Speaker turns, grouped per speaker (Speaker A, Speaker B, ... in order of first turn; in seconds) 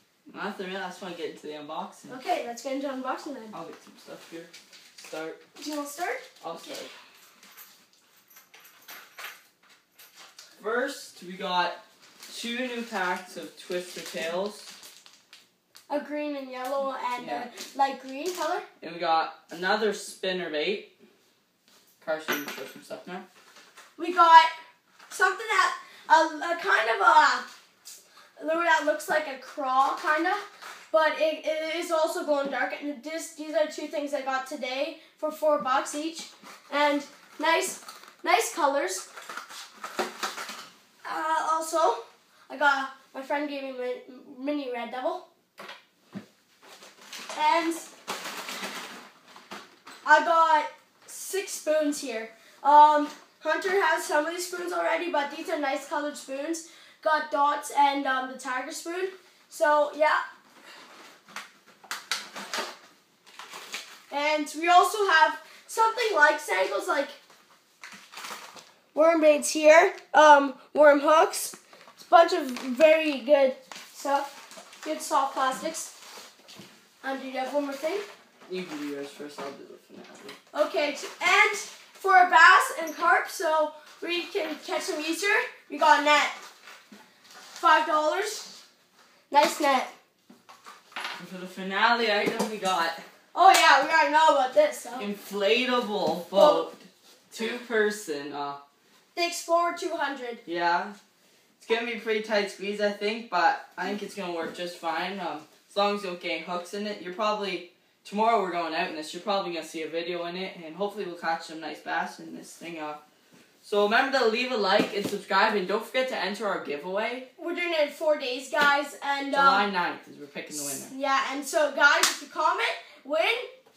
Speaker A: 0.3-2.2, 3.5-5.4, 6.4-6.9, 10.6-14.7, 17.2-17.5, 18.8-20.9, 22.0-23.3, 78.5-80.4, 91.2-93.0, 95.0-98.6, 100.5-101.0, 101.6-113.0, 113.6-117.3, 119.3-120.9
Speaker B: 2.1-3.6, 5.6-6.2, 15.9-18.7, 24.0-24.5, 25.1-27.5, 28.4-39.1, 41.0-45.2, 47.3-47.9, 50.0-60.2, 64.1-67.2, 68.9-75.9, 77.0-78.0, 80.5-86.3, 87.5-88.5, 89.3-89.9, 93.3-95.1, 99.1-100.4, 117.4-119.7, 120.7-123.5